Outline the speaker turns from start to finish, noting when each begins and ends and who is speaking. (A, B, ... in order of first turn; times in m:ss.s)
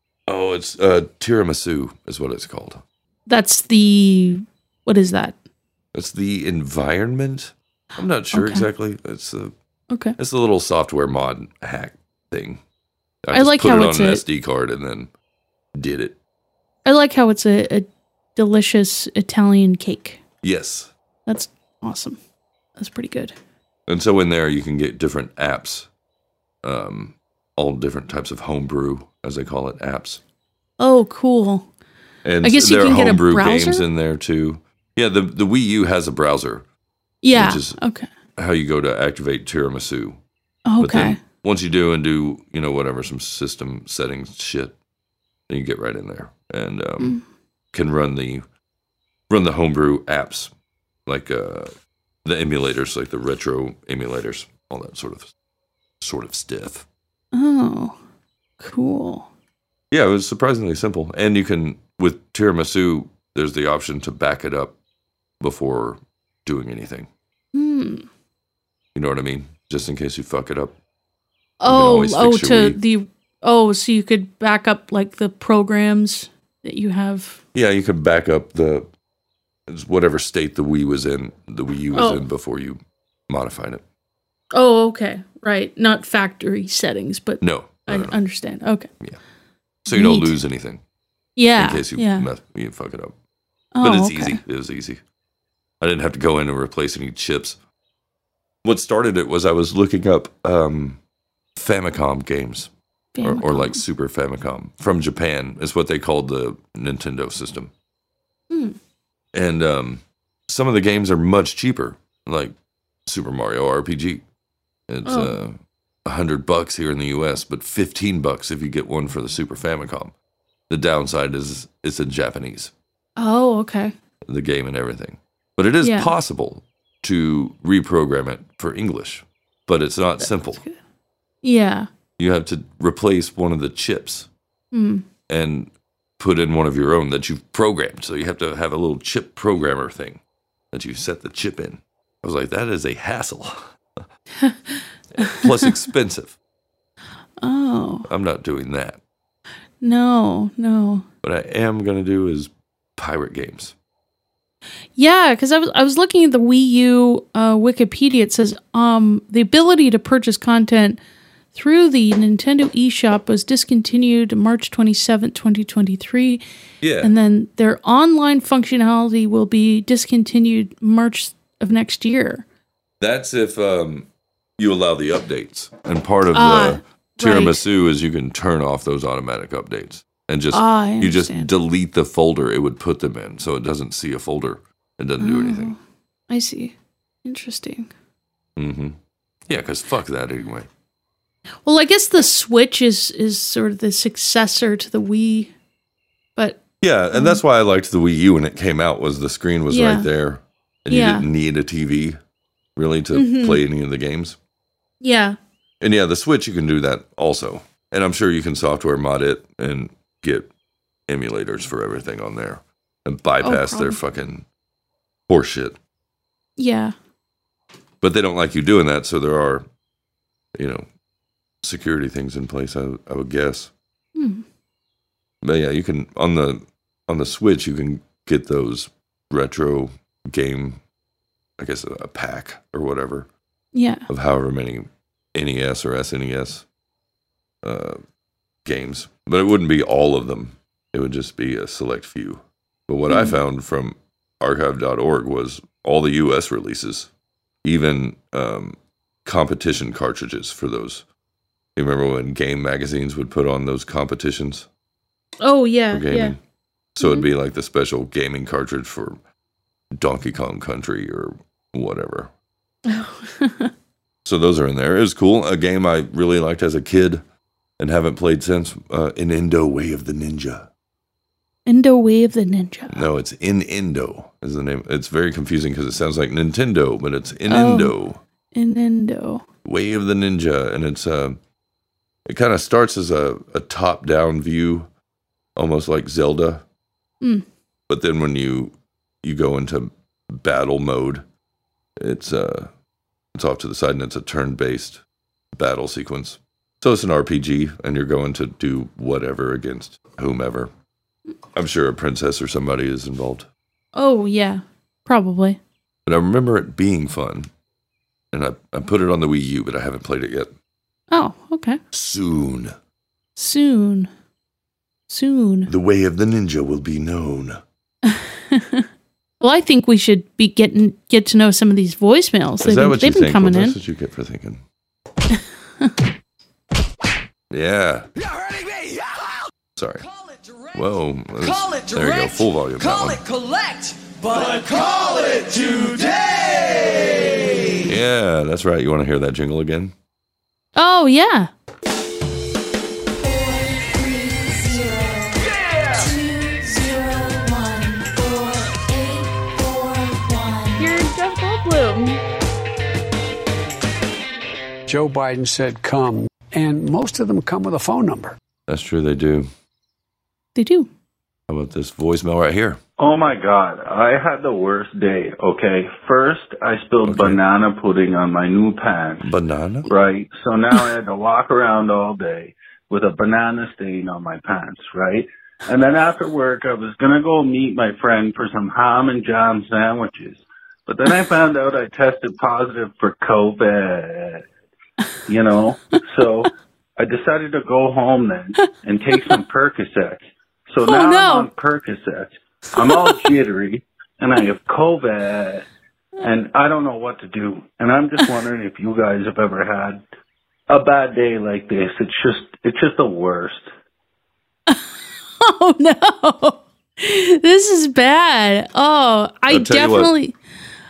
0:00.3-0:02.8 A
0:03.3-0:05.4 B
0:05.9-0:09.5 A
0:08.3-0:08.7 B
0:10.2-0:12.6 A
0:13.2-0:15.1 A
0:13.3-0:14.2 B
0:15.8-0:16.2 A
0:16.8-0:20.2 B
0:20.4-0:20.9 A
0:21.3-0:22.2 B
0:22.8-0:23.3 B
0:23.9-0:25.9 A
0:26.6-0:30.2 A
0:30.8-0:31.7 B
0:32.2-0:36.6 A
0:32.4-0:33.8 B
0:37.2-0:38.1 B
0:37.3-0:37.8 A
0:38.4-0:40.2 A
0:40.6-0:41.2 B
0:40.8-0:44.8 A
0:45.5-0:47.2 A
0:47.7-0:48.4 A
0:49.3-0:50.5 A
0:51.0-0:51.7 A
0:52.2-0:55.3 A
0:56.0-0:56.8 A
0:57.3-0:58.0 B
0:58.6-0:59.3 B
0:59.9-1:04.8 A
1:05.4-1:07.1 A
1:07.5-1:08.0 B
1:08.9-1:10.8 A
1:11.6-1:17.4 B
1:11.6-1:12.8 A
1:17.5-1:18.9 A
1:19.7-1:23.8 A
1:21.9-1:22.2 B
1:24.5-1:28.9 B
1:27.4-1:28.2 A
1:29.8-1:30.8 A
1:29.9-1:30.4 B
1:31.4-1:32.3 B
1:31.6-1:33.1 A
1:33.7-1:34.4 B
1:33.8-1:35.0 A
1:35.8-1:37.6 A
1:38.6-1:41.0 A
1:41.6-1:42.7 A
1:43.1-1:43.8 B
1:43.2-1:47.7 A
1:48.5-1:48.8 B
1:49.3-1:52.5 A
1:53.0-1:54.2 A
1:54.9-2:00.1 A
1:55.0-1:55.4 B
2:00.7-2:02.7 A
2:03.2-2:03.9 B
2:04.3-2:10.6 A
2:05.8-2:06.1 B
2:10.2-2:10.8 B
2:11.4-2:11.9 B
2:12.2-2:14.3 A
2:14.7-2:15.0 B
2:15.3-2:20.2 A
2:20.7-2:23.6 A
2:24.4-2:25.7 B
2:25.2-2:26.4 A
2:27.4-2:28.1 B
2:28.1-2:29.0 A
2:29.8-2:31.0 B
2:31.2-2:33.7 A
2:35.0-2:41.0 B
2:41.5-2:46.4 B
2:46.8-2:47.1 A
2:47.0-2:52.4 B
2:53.0-2:54.1 A
2:54.6-3:05.7 A
2:56.3-2:57.6 B
3:00.5-3:01.5 B
3:05.2-3:05.8 B
3:06.3-3:07.9 B
3:08.6-3:09.0 A
3:09.5-3:10.7 A
3:11.6-3:15.5 B
3:16.4-3:17.4 B
3:16.8-3:22.2 A
3:19.7-3:20.1 B
3:20.9-3:21.2 B
3:22.8-3:24.4 A
3:23.1-3:23.6 B
3:25.0-3:25.4 B
3:25.8-3:30.5 A
3:31.1-3:34.4 A
3:33.4-3:34.0 B
3:35.3-3:35.8 A
3:36.6-3:36.9 B
3:38.0-3:39.6 A
3:40.6-3:40.8 A
3:41.6-3:43.7 A
3:44.2-3:44.4 B
3:45.4-3:50.8 A
3:51.6-3:53.3 A
3:53.7-3:54.0 B
3:54.1-3:56.6 A
3:57.6-3:58.0 A
3:58.6-4:07.1 A
4:03.1-4:03.4 B
4:07.6-4:11.0 A
4:11.8-4:14.7 A
4:15.4-4:16.4 B
4:15.9-4:16.4 A
4:17.0-4:19.2 A
4:17.0-4:17.3 B
4:19.9-4:22.3 A
4:22.9-4:23.7 B
4:24.2-4:27.2 A
4:27.8-4:30.7 A
4:31.6-4:33.1 B
4:32.9-4:38.2 A
4:37.5-4:37.9 B
4:38.5-4:39.4 B
4:39.6-4:41.4 A
4:42.3-4:44.9 A
4:45.6-4:46.6 A
4:47.9-4:51.2 A
4:52.0-4:52.7 A
4:53.3-4:55.0 A
4:55.5-5:00.7 A
5:01.6-5:03.5 A
5:03.9-5:05.6 B
5:06.0-5:07.5 A
5:08.3-5:10.5 A
5:11.1-5:11.8 B
5:11.9-5:12.7 A
5:13.4-5:14.1 B
5:15.1-5:15.7 B
5:15.7-5:17.6 A
5:18.0-5:18.8 B
5:19.4-5:23.8 B
5:22.6-5:24.6 A
5:25.3-5:25.9 B
5:27.5-5:28.1 A
5:28.2-5:29.3 C
5:29.8-5:30.0 A
5:30.0-5:30.8 C
5:30.7-5:33.2 A
5:31.4-5:37.6 C
5:37.8-5:39.9 A
5:40.8-5:41.5 B
5:43.4-5:45.3 D
5:46.1-5:52.2 D
5:54.9-5:58.4 E
5:58.7-5:59.5 A
6:00.5-6:00.9 B
6:01.5-6:02.8 A
6:03.0-6:09.3 F
6:07.0-6:07.4 A
6:09.2-6:09.9 A
6:09.9-6:24.4 F
6:25.3-6:35.6 F
6:30.8-6:31.5 B
6:36.2-6:40.0 F
6:40.7-6:43.7 F
6:45.4-6:50.3 B
6:49.5-6:50.1 A